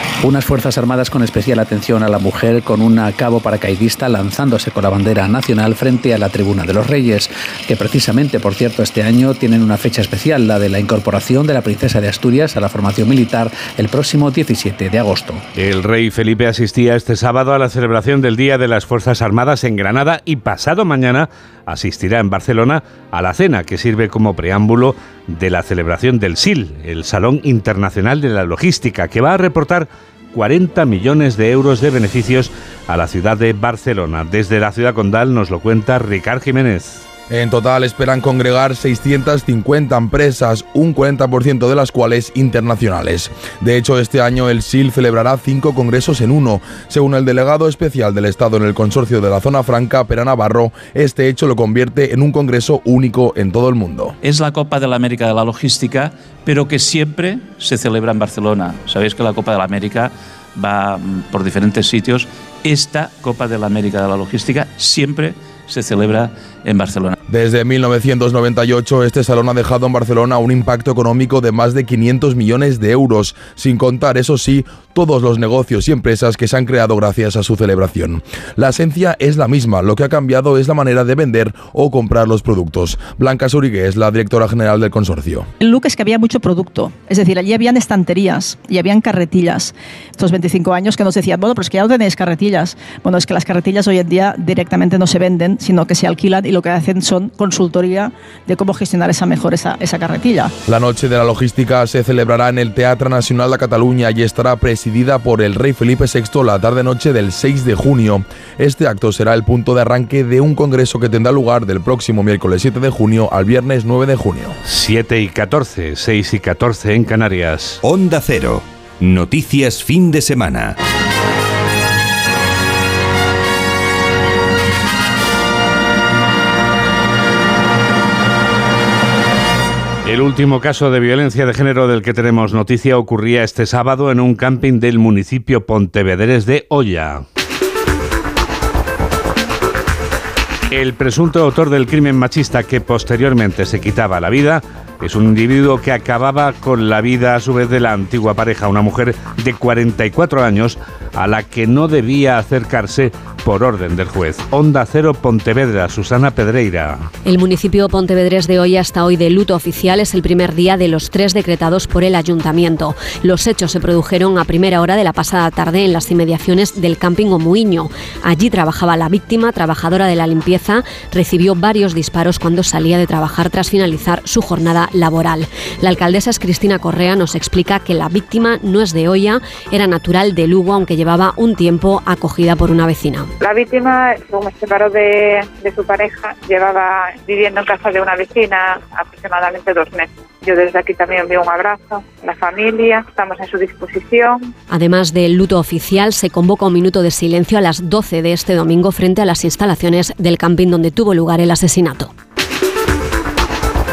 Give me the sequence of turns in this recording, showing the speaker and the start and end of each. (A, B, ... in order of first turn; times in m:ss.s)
0:00.2-0:15.4 A
0:15.5-0:37.0 B
0:37.3-0:54.1 C
0:54.2-1:07.2 D
1:07.3-1:25.5 C
1:25.6-1:40.5 E
1:40.7-1:54.5 C
1:54.6-1:57.8 B
1:57.8-2:00.7 F
2:10.0-2:17.2 B
2:20.7-2:37.1 B
2:37.2-3:03.3 G
3:03.4-3:14.3 H
3:14.7-3:22.1 G